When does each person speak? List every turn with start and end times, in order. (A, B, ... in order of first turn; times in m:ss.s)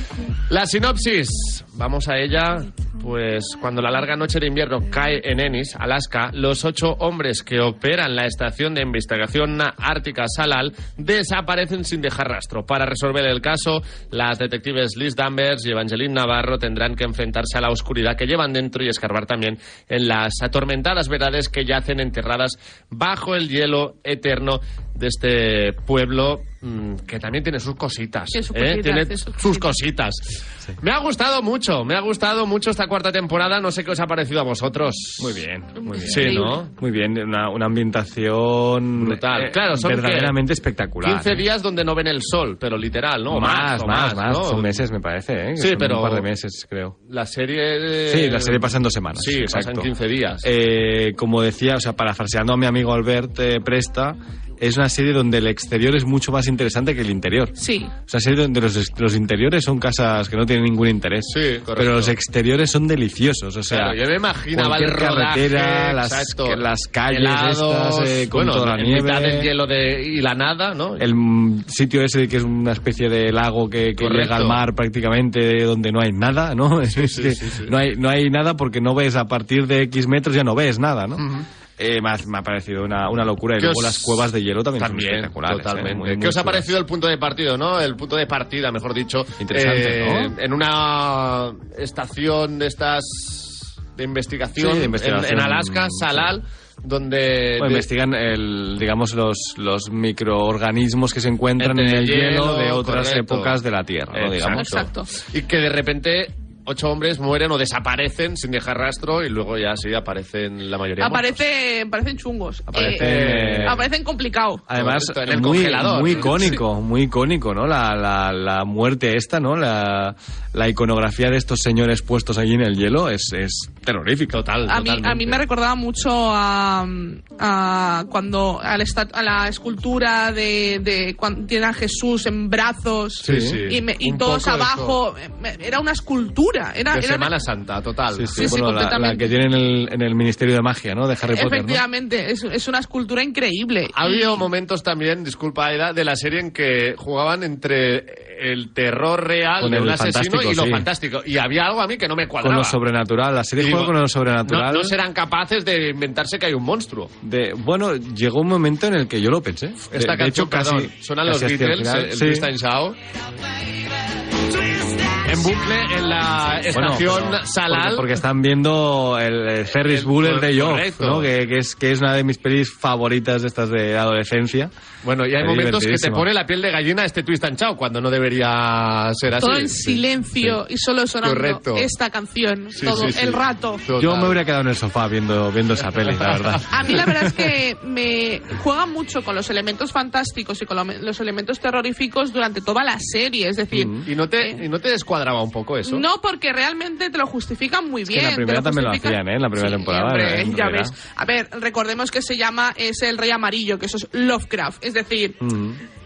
0:00.5-0:30.2 A
0:28.3-0:29.7 B
0:30.8-0:35.4 A
0:35.2-0:41.4 C
0:35.8-0:36.6 B
0:36.0-0:36.7 A
0:39.0-0:40.4 A
0:41.0-0:44.8 A
0:43.3-0:47.0 C
0:45.6-0:46.2 A
0:47.1-0:50.4 A
0:48.1-0:49.9 C
0:50.4-0:57.6 C
0:57.6-0:57.9 B
0:58.1-1:04.0 C
1:01.3-1:02.2 A
1:03.7-1:11.1 A
1:04.5-1:09.5 C
1:11.0-1:21.2 C
1:14.0-1:14.6 A
1:16.9-1:17.7 A
1:21.2-1:21.5 A
1:21.8-1:26.7 C
1:23.6-1:37.8 A
1:29.4-1:30.3 C
1:34.6-1:36.3 C
1:37.6-1:44.9 C
1:41.6-1:43.6 A
1:44.1-1:51.4 A
1:44.5-1:45.1 B
1:51.0-1:54.6 B
1:52.7-1:53.8 C
1:52.8-1:53.8 A
1:54.7-2:04.4 C
1:54.7-1:56.6 A
2:04.3-2:05.4 A
2:04.6-2:17.3 B
2:13.2-2:13.6 C
2:13.2-2:15.0 A
2:16.9-2:18.5 A
2:18.1-2:21.8 C
2:18.3-2:19.3 B
2:21.3-2:24.4 B
2:23.9-2:32.8 A
2:29.6-2:30.9 C
2:32.4-2:35.0 C
2:33.6-2:37.1 A
2:37.2-2:42.5 C
2:39.9-2:43.0 A
2:45.2-2:48.2 A
2:46.7-2:54.7 C
2:49.8-2:51.3 A
2:55.0-3:00.5 A
2:55.4-2:56.3 C
2:59.4-3:03.8 B
3:01.2-3:01.9 A
3:02.7-3:04.4 A
3:04.0-3:07.3 C
3:06.2-3:06.5 A
3:06.7-3:14.6 B
3:13.7-3:14.0 C
3:14.0-3:16.0 A
3:15.8-3:25.4 B
3:18.1-3:20.9 C
3:25.4-3:25.8 C